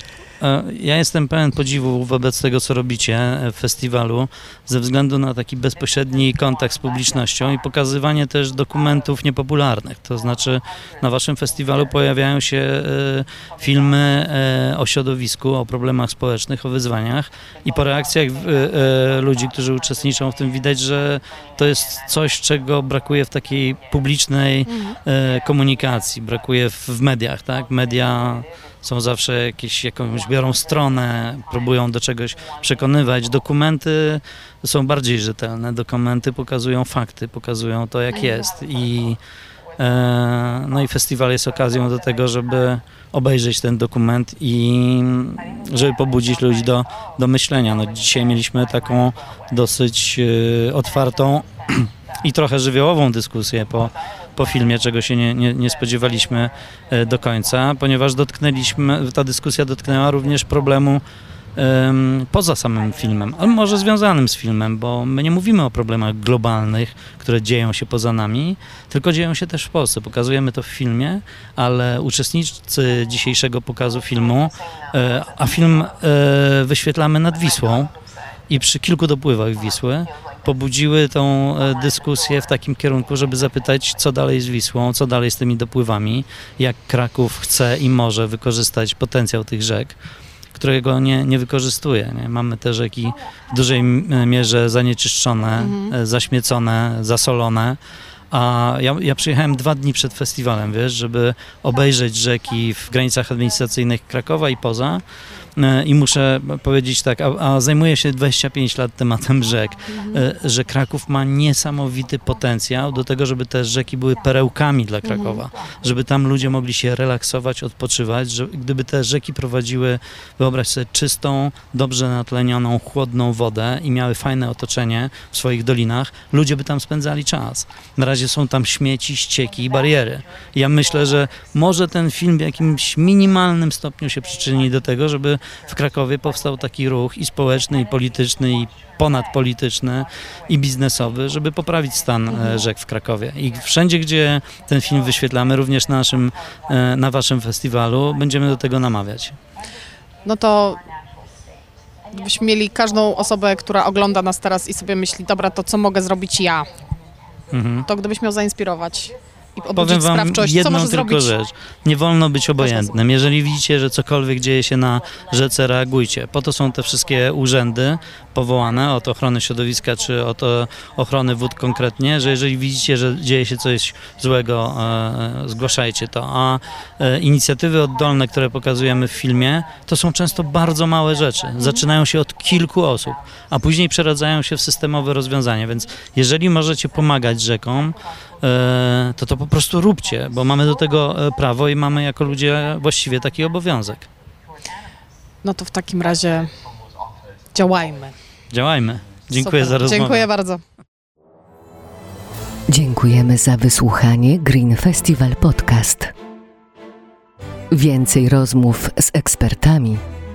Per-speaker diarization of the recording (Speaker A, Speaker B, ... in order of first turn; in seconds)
Speaker A: 0.4-39.2, 39.8-61.0, 61.6-77.9, 78.5-90.0, 90.5-97.8, 98.3-105.0, 105.6-149.4, 157.5-157.9, 159.8-194.1, 198.5-200.3
Speaker B: 24.7-25.0, 95.6-96.0, 109.9-110.2, 115.0-115.4, 142.3-142.6, 150.2-150.8, 152.1-156.7, 157.9-161.3, 162.6-162.9, 181.6-181.8, 195.4-196.5, 197.5-198.2, 199.3-200.6
Speaker C: 202.7-206.1, 207.7-210.0